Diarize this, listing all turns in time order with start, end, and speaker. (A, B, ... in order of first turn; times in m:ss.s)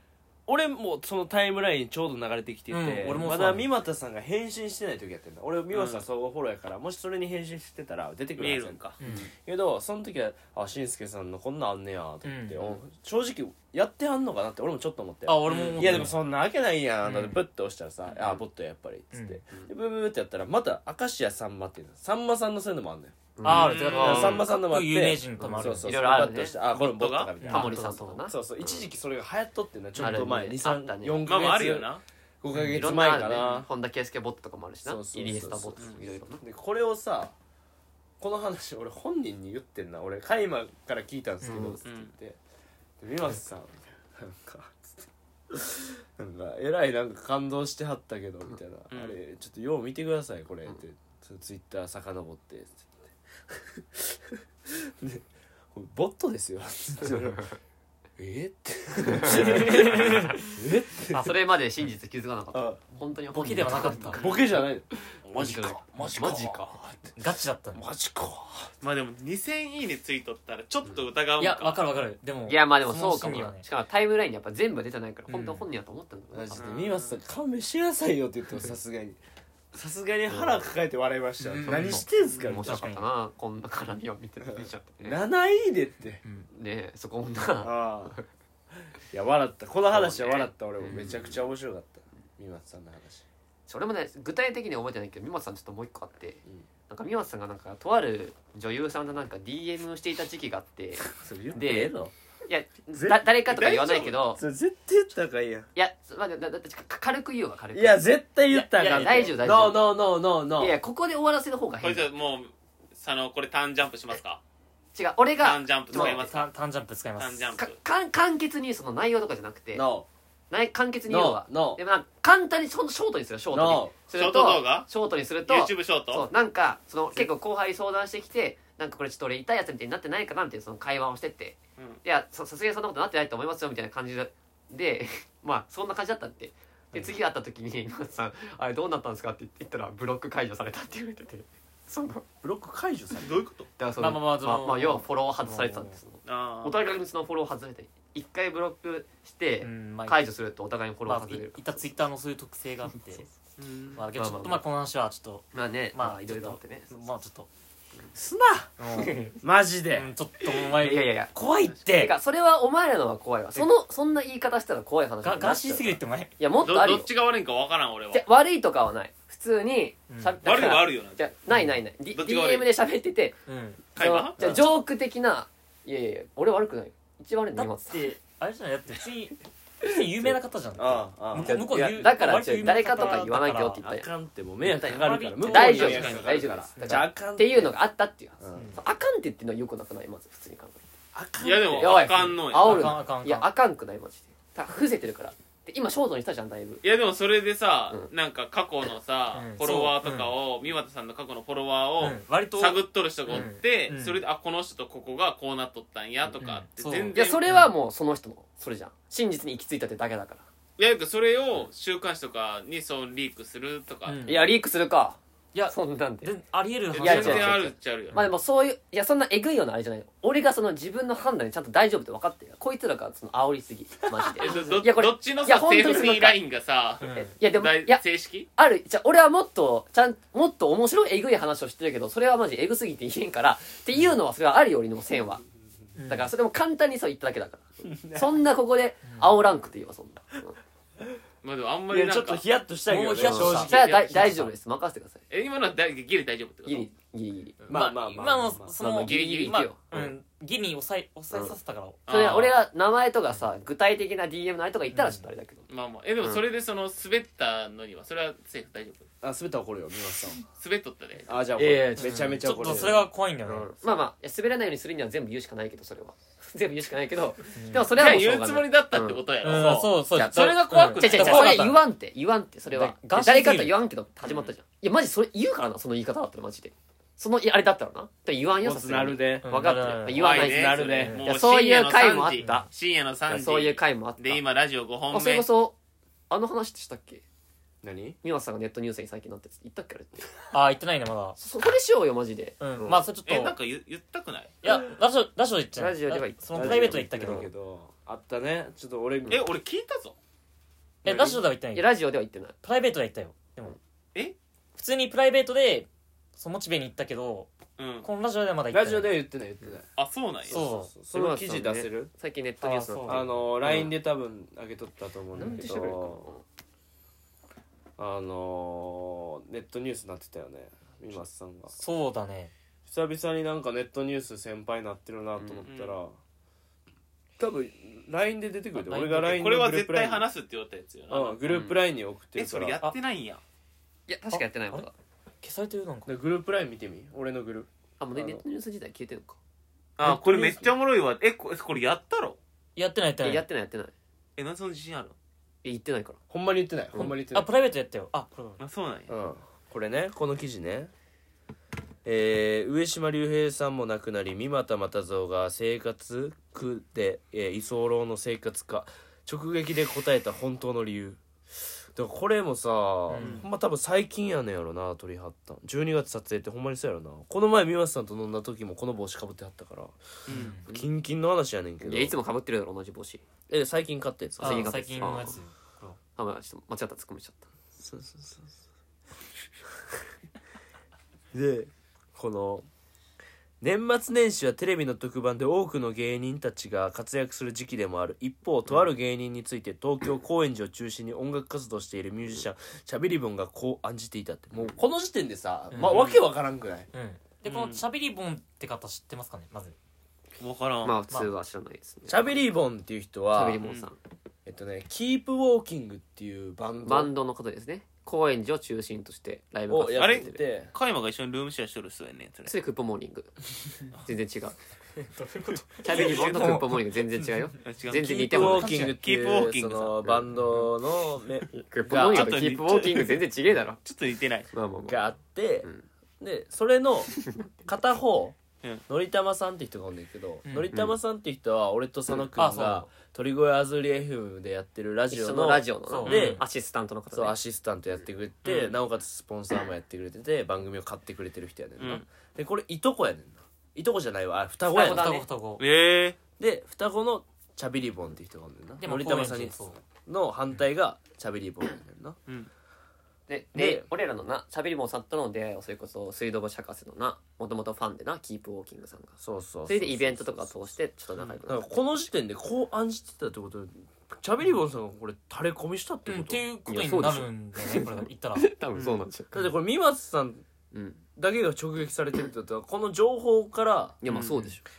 0:00.5-0:23.1 A
0:02.7-0:03.7 B
0:05.7-0:06.0 C
0:08.4-0:09.0 C
0:09.0-0:09.3 B
0:09.0-0:09.3 D
0:12.2-0:12.6 B
0:15.2-0:16.2 B
0:15.4-0:16.0 C
0:17.0-0:17.4 B
0:19.1-0:19.4 B
0:23.4-0:23.8 D
0:23.4-0:26.0 B
0:23.4-0:24.4 C
0:24.0-0:33.7 A
0:25.4-0:26.6 D
0:26.7-0:27.3 C
0:27.4-0:28.2 B
0:27.4-0:28.9 D
0:30.0-0:30.3 B
0:30.0-0:31.2 D
0:31.2-0:32.0 C
0:32.5-0:32.9 B
0:32.7-0:36.4 D
0:33.3-0:33.6 C
0:34.8-0:37.3 A
0:38.2-0:42.4 A
0:41.4-0:41.8 B
0:41.6-0:42.1 C
0:43.0-0:54.4 A
0:48.9-0:49.2 C
0:55.0-0:57.4 A
0:57.2-0:57.6 D
0:58.2-1:01.2 A
0:59.2-1:00.2 D
0:59.3-1:00.4 B
1:01.1-1:06.8 D
1:02.5-1:02.8 A
1:03.3-1:04.2 B
1:04.1-1:07.2 A
1:04.2-1:04.4 C
1:07.2-1:07.8 B
1:07.7-1:08.7 A
1:08.8-1:11.9 C
1:11.4-1:13.6 B
1:12.5-1:16.7 D
1:15.3-1:15.6 B
1:16.3-1:19.2 A
1:16.5-1:17.2 C
1:19.7-1:22.8 A
1:20.3-1:20.7 D
1:21.4-1:22.0 B
1:21.6-1:25.2 D
1:22.2-1:22.6 C
1:22.6-1:23.1 B
1:24.4-1:26.2 A
1:26.5-1:28.2 D
1:27.6-1:28.2 A
1:29.1-1:33.2 A
1:30.0-1:30.5 C
1:30.8-1:31.5 D
1:33.7-1:44.4 D
1:41.1-1:42.1 A
1:42.9-1:43.3 A
1:43.5-1:44.2 C
1:44.3-1:45.7 A
1:45.7-1:50.0 D
1:47.7-1:50.8 A
1:48.8-1:49.3 B
1:50.6-1:52.1 D
1:51.8-1:54.4 C
1:54.9-1:56.4 D
1:55.4-1:56.5 C
1:55.9-1:57.6 B
1:57.2-1:57.8 C
1:57.6-1:59.9 D
1:59.7-2:00.1 A
2:00.5-2:22.2 D
2:01.1-2:01.8 A
2:03.5-2:04.0 A
2:04.1-2:04.9 C
2:05.4-2:06.3 C
2:22.4-2:23.4 A
2:23.2-2:23.7 C
2:23.8-2:31.9 D
2:24.0-2:26.0 B
2:26.2-2:26.8 C
2:29.6-2:30.2 B
2:31.0-2:33.3 B
2:33.6-2:34.1 C
2:34.0-2:37.5 B
2:34.2-2:34.6 D
2:35.5-2:37.1 D
2:38.1-2:38.7 A
2:38.8-2:39.2 B
2:39.0-2:39.4 D
2:39.4-2:40.1 A
2:39.9-2:42.1 B
2:40.5-2:41.3 D
2:41.9-2:47.1 D
2:45.2-2:46.4 B
2:46.6-2:48.3 C
2:48.1-2:53.4 D
2:50.1-2:50.4 B
2:50.4-2:51.4 C
2:51.5-2:51.8 B
2:52.1-2:52.7 C
2:53.5-2:53.9 B
2:53.9-2:54.7 C
2:54.0-2:58.1 D
2:54.4-2:54.7 A
2:57.5-3:03.8 B
3:00.3-3:02.0 A
3:01.4-3:04.1 D
3:03.8-3:07.8 A
3:04.6-3:06.2 B
3:04.8-3:10.8 D
3:05.8-3:06.3 C
3:06.8-3:07.1 B
3:08.4-3:08.8 A
3:08.5-3:08.8 B
3:11.1-3:12.2 A
3:11.4-3:13.0 C
3:11.7-3:16.8 D
3:12.5-3:13.5 B
3:16.8-3:27.4 C
3:19.3-3:20.3 B
3:22.0-3:24.2 B
3:26.3-3:27.7 B
3:27.1-3:30.4 D
3:30.8-3:34.2 C
3:34.0-3:34.6 B
3:34.2-3:36.3 D
3:35.5-3:38.4 B
3:36.9-3:38.2 C
3:37.0-3:46.4 D
3:44.4-3:48.5 C
3:44.4-3:44.8 B
3:47.0-3:47.4 B
3:47.1-3:55.4 D
3:56.0-3:56.3 B
3:56.1-4:00.6 D
3:57.9-3:58.3 A
3:59.0-3:59.4 B
4:01.4-4:02.4 C
4:01.9-4:03.7 A
4:02.8-4:04.5 B
4:03.1-4:05.2 D
4:03.7-4:04.5 C
4:05.3-4:06.9 C
4:06.6-4:07.7 D
4:07.6-4:12.0 B
4:07.7-4:08.8 A
4:08.8-4:10.1 D
4:09.0-4:09.6 C
4:12.1-4:12.5 C
4:12.1-4:15.6 D
4:14.9-4:15.3 B
4:15.7-4:19.1 C
4:19.2-4:20.4 A
4:20.6-4:21.3 C
4:21.3-4:23.1 A
4:21.6-4:42.6 D
4:22.0-4:23.7 B
4:27.6-4:28.0 B
4:27.9-4:31.7 C
4:29.4-4:31.8 B
4:32.7-4:33.8 B
4:34.2-4:34.5 C
4:38.6-4:39.5 A
4:39.4-4:41.3 B
4:40.1-4:45.5 C
4:40.3-4:41.2 A
4:42.4-4:42.7 B
4:43.3-4:44.4 D
4:45.1-4:45.8 D
4:46.3-4:47.2 D
4:47.8-4:48.2 A
4:48.2-4:50.3 D
4:50.5-4:51.4 B
4:51.4-4:53.0 D
4:52.6-4:53.6 B
4:53.2-4:54.5 C
4:54.6-4:57.5 B
4:55.8-4:57.5 D
4:56.5-4:59.4 A
4:59.3-5:00.2 C
5:01.0-5:01.9 B
5:01.1-5:02.6 D
5:02.6-5:03.7 B
5:04.7-5:09.2 B
5:07.8-5:08.1 C
5:08.7-5:09.9 A
5:10.0-5:10.6 C
5:10.5-5:12.1 A
5:10.5-5:10.9 B
5:11.1-5:13.9 D
5:12.6-5:13.5 B
5:13.0-5:16.3 A
5:15.3-5:15.8 B
5:15.4-5:16.4 D
5:18.0-5:21.7 A
5:21.8-5:22.5 B
5:22.8-5:26.2 A
5:25.4-5:25.7 D
5:25.6-5:26.0 C
5:27.4-5:30.2 A
5:28.7-5:29.4 B
5:29.2-5:31.4 C
5:31.1-5:32.8 A
5:31.4-5:31.8 D
5:32.3-5:33.4 C
5:34.1-5:34.9 D
5:34.3-5:34.9 B
5:35.4-5:36.1 B
5:36.0-5:38.4 A
5:38.0-5:39.4 D
5:40.0-5:42.4 C
5:40.0-5:40.7 B
5:42.8-5:43.4 B
5:43.2-5:43.9 D
5:44.4-5:45.1 C
5:45.6-5:46.2 D
5:46.3-5:47.5 A
5:47.0-5:48.6 B
5:48.6-5:49.1 C
5:49.1-5:50.9 A
5:52.0-6:01.2 A
6:01.9-6:10.0 A
6:03.1-6:03.4 B
6:10.3-6:10.5 C
6:10.3-6:10.7 B
6:10.5-6:12.2 A
6:11.8-6:13.2 D
6:13.5-6:14.8 A
6:14.4-6:15.4 D
6:14.4-6:16.0 B
6:16.2-6:17.5 D
6:17.8-6:18.6 A
6:21.3-6:22.6 A
6:23.6-6:36.9 A
6:35.7-6:36.0 B
6:35.8-6:36.3 C
6:36.9-6:39.7 B
6:37.4-6:37.8 C
6:40.4-6:41.0 C
6:40.8-6:42.4 D
6:42.1-6:43.6 A
6:43.3-6:44.0 D
6:43.6-6:43.9 C
6:44.4-6:47.1 A
6:46.8-6:50.4 D
6:49.7-6:50.7 A
6:49.9-6:52.5 C
6:52.4-6:53.3 D
6:54.0-6:54.6 D
6:55.1-6:57.3 B
6:55.8-6:58.8 D
6:55.9-6:56.6 C
6:57.6-7:00.0 C
6:58.0-7:02.4 A
6:58.7-6:58.9 B
7:01.5-7:03.8 D
7:01.9-7:03.2 C
7:03.8-7:04.5 C
7:04.5-7:05.1 D
7:04.9-7:16.4 A
7:07.1-7:07.5 D
7:10.4-7:10.8 B
7:12.4-7:12.9 B
7:15.1-7:17.4 D
7:15.9-7:16.4 B
7:17.1-7:25.1 A
7:18.4-7:18.8 C
7:21.8-7:22.0 C
7:24.7-7:25.3 D
7:24.8-7:25.6 B
7:25.6-7:26.2 C
7:26.4-7:32.2 A
7:28.8-7:29.8 B
7:33.3-7:41.8 D
7:33.5-7:33.9 A
7:39.2-7:40.8 A
7:41.5-7:46.5 A
7:46.0-7:48.5 B
7:46.7-7:49.5 D
7:48.7-7:49.0 C
7:49.3-7:50.4 A
7:50.7-7:51.0 D
7:51.2-7:54.0 A
7:54.0-7:54.6 D
7:54.1-7:54.6 B